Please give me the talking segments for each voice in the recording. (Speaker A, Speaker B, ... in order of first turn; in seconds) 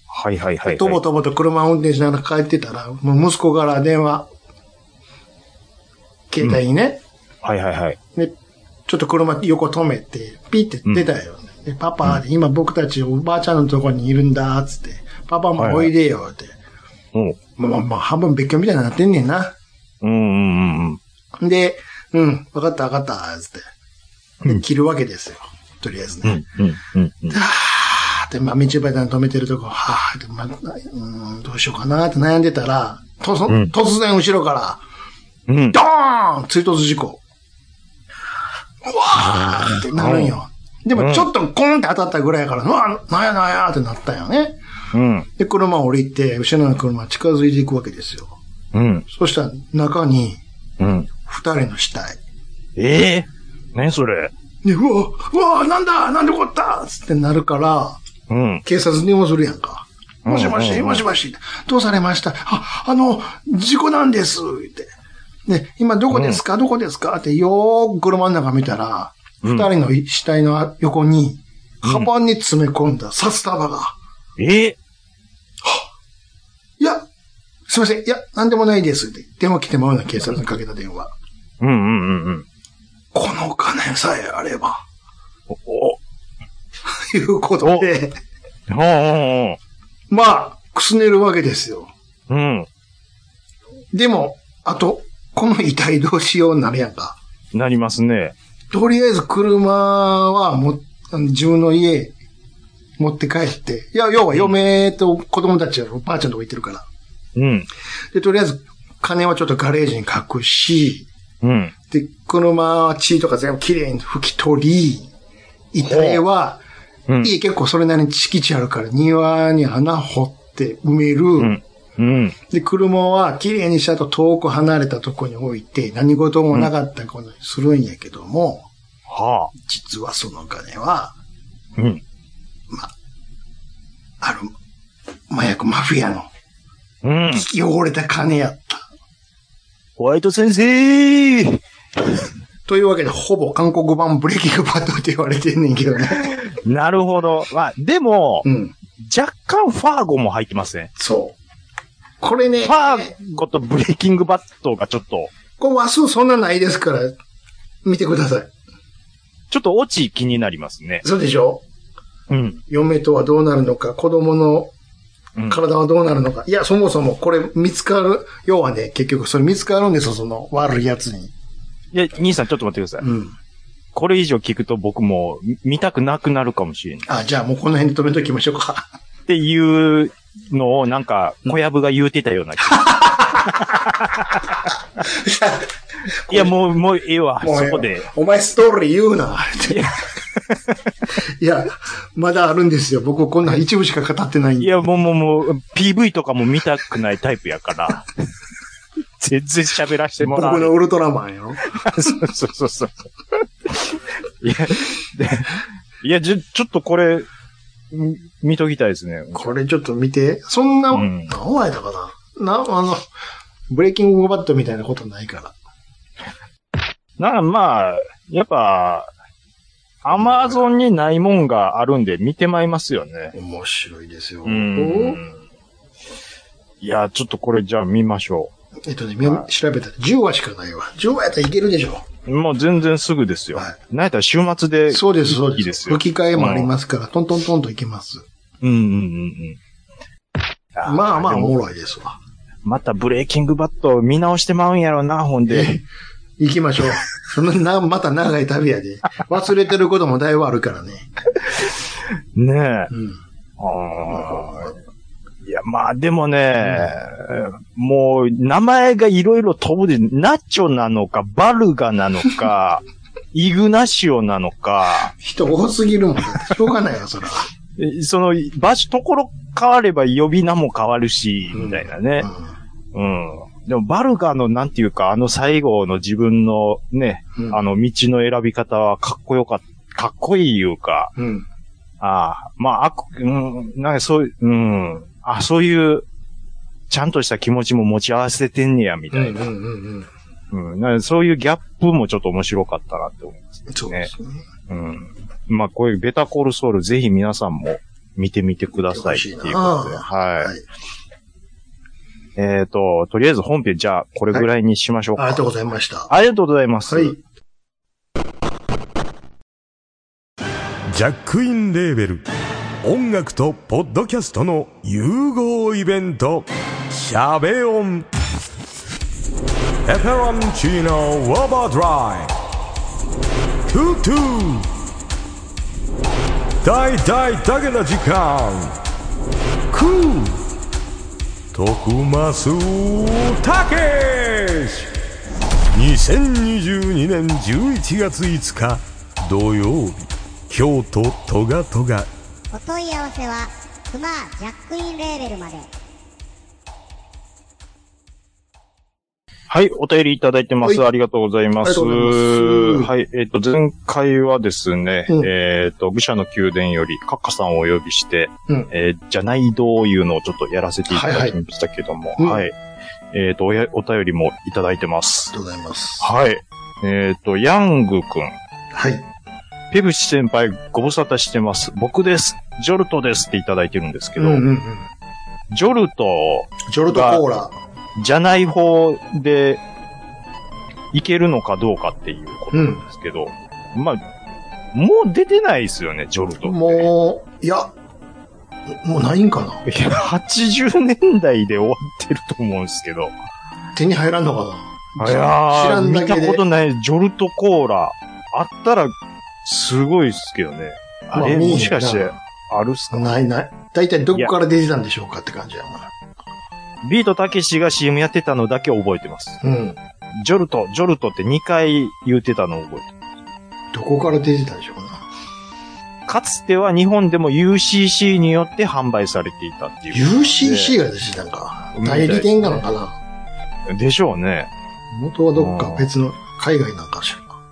Speaker A: 0.1-1.0, 7.4-8.0, 15.6-15.9, 17.1-17.4, 20.0-21.0, 26.2-27.4, 33.5-33.7, 35.5-35.8, 39.3-40.4, 41.0-41.3, 44.9-45.3, 48.7-49.0, 50.8-51.1, 52.8-54.3, 58.3-58.6, 60.2-61.0, 66.1-66.4, 69.4-69.7, 71.8-72.1, 74.4-74.8, 81.6-82.5, 85.5-86.0, 87.6-87.9, 88.7-89.6, 92.3-92.7, 97.5-98.3, 107.4-107.7, 111.4-111.7, 115.8-116.2, 121.4-122.4, 129.1-129.5, 131.8-132.0, 137.0-137.4, 140.0-141.6, 146.3-148.5, 149.0-150.9, 152.6-155.3, 159.5-161.0, 162.3-162.6, 165.4-165.6, 171.9-173.1, 173.9-177.1, 179.3-184.7, 186.3-188.1, 189.7-190.8, 194.6-198.1, 199.2-200.8, 201.7-207.3, 207.9-209.5, 210.9-211.3, 217.2-219.1, 220.0-223.3, 224.4-225.4, 226.8-228.5, 232.3-236.7, 238.6-239.6, 240.8-241.6, 242.6-245.8, 252.3-252.9, 253.6-254.8, 255.4-265.1, 267.8-272.3, 272.9-281.1, 282.0-286.1, 286.9-289.4, 290.5-294.1, 294.7-300.5, 302.4-305.4, 306.1-307.2, 349.5-362.6, 363.1-365.3, 366.0-368.3, 369.7-374.4, 375.5-377.2, 378.0-379.6, 380.9-384.0, 384.7-386.9, 389.7-393.1, 395.0-403.2, 406.8-409.4, 410.2-412.9, 416.1-420.8, 421.7-422.6, 423.7-424.5, 425.4-425.9
Speaker B: 0.6-4.3, 6.3-7.0, 8.9-16.6, 17.6-19.6, 21.4-23.7, 24.4-26.4, 27.3-34.8, 35.7-37.2, 38.8-44.6, 45.4-48.4, 49.1-50.4, 51.2-52.2, 54.6-58.0, 58.6-64.9, 65.5-74.0, 75.6-75.9, 76.8-77.1, 77.7-81.1, 83.1-84.8, 86.9-88.2, 90.1-91.9, 93.9-97.2, 98.7-102.1, 103.0-106.9, 108.1-111.1, 111.9-115.1, 115.7-116.6, 117.2-121.6, 122.5-128.7, 129.6-131.1, 134.2-134.5, 135.3-136.3, 137.3-138.9, 142.7-146.3, 148.4-148.7, 151.0-151.4, 152.2-153.1, 155.6-157.1, 157.8-158.5, 161.0-161.6, 162.7-164.7, 165.5-171.3, 173.0-173.3, 177.1-178.9, 182.7-183.6, 185.0-185.7, 186.3-186.5, 187.4-189.9, 191.4-194.7, 200.2-201.6, 209.3-213.1, 213.7-215.6, 220.1-220.6, 223.3-225.2, 228.8-232.1, 234.9-238.2, 240.9-242.2, 245.5-245.8, 246.4-251.1, 252.9-253.2, 254.1-254.7, 256.6-256.9, 265.2-267.5, 271.5-272.5, 281.2-281.5, 289.1-290.1, 293.7-294.4, 298.9-300.6, 305.2-306.1, 306.9-307.2, 351.6-352.9, 360.9-361.4, 362.2-362.4, 365.3-366.1, 368.7-369.1, 374.2-374.9, 376.7-377.5, 382.5-382.8, 386.4-387.7, 388.7-389.6, 393.8-396.4, 401.1-402.1, 402.9-405.9, 409.4-409.8, 413.7-415.0, 419.9-423.0, 424.9-427.4
Speaker C: 310.9-312.2, 312.8-318.1, 319.9-322.3, 323.7-324.7, 326.6-328.8, 329.7-330.4, 331.5-334.9, 335.7-342.1
Speaker D: 342.5-345.7